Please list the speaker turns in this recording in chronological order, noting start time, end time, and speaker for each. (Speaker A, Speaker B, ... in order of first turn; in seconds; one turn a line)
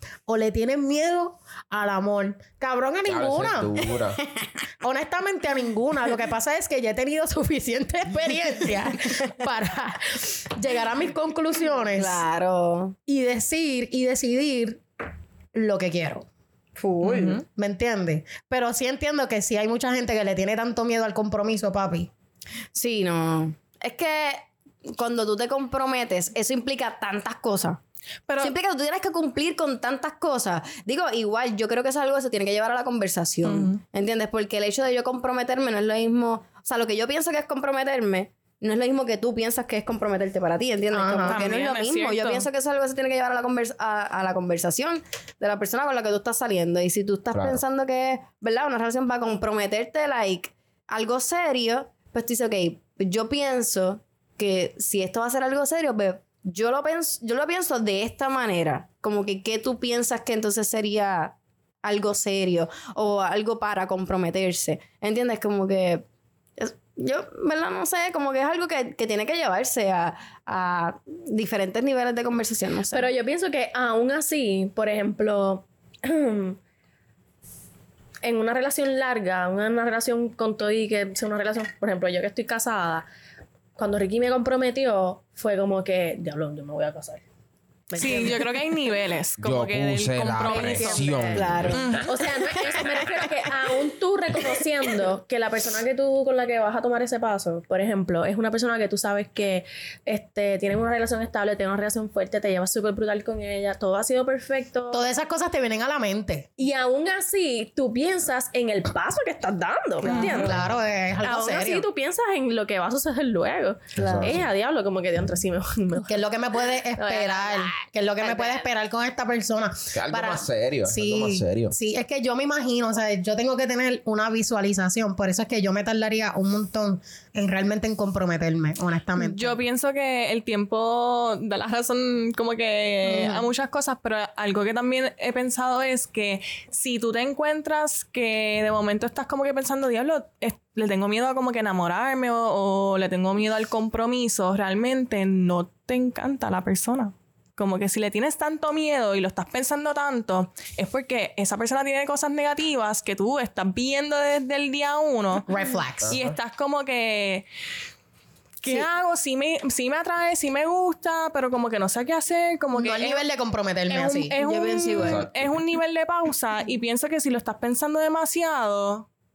Speaker A: 0.3-3.8
Speaker B: 3.0-4.2
Speaker A: 4.8-12.2
Speaker C: 11.9-12.9
Speaker A: 13.1-14.8
Speaker A: 15.5-16.2
Speaker C: 16.8-17.4
Speaker D: 17.0-17.4
Speaker A: 17.4-22.1
Speaker C: 22.7-27.8
Speaker D: 28.3-28.5
Speaker C: 28.4-66.0
Speaker D: 33.4-33.8
Speaker A: 40.9-41.5
Speaker D: 41.2-42.5
Speaker B: 47.3-47.6
Speaker C: 66.6-73.1
Speaker E: 72.9-76.6
Speaker E: 78.2-83.1
Speaker E: 83.8-87.2
Speaker E: 87.9-88.5
Speaker D: 88.0-91.1
Speaker B: 89.4-92.0
Speaker E: 90.4-105.0
Speaker C: 91.3-91.9
Speaker D: 91.7-92.1
Speaker A: 104.9-106.5
Speaker E: 106.6-110.6
Speaker C: 110.1-110.5
Speaker D: 110.1-110.5
Speaker A: 110.1-111.9
Speaker E: 111.2-116.2
Speaker B: 114.0-114.5
Speaker C: 114.0-114.3
Speaker A: 116.0-129.6
Speaker E: 117.0-118.7
Speaker B: 119.9-121.8
Speaker D: 129.2-155.5
Speaker A: 133.0-133.5
Speaker A: 155.5-156.1
Speaker B: 156.0-156.4
Speaker D: 156.1-157.4
Speaker D: 158.6-163.3
Speaker A: 162.7-164.3
Speaker D: 163.9-169.1
Speaker C: 164.4-165.2
Speaker B: 164.9-165.3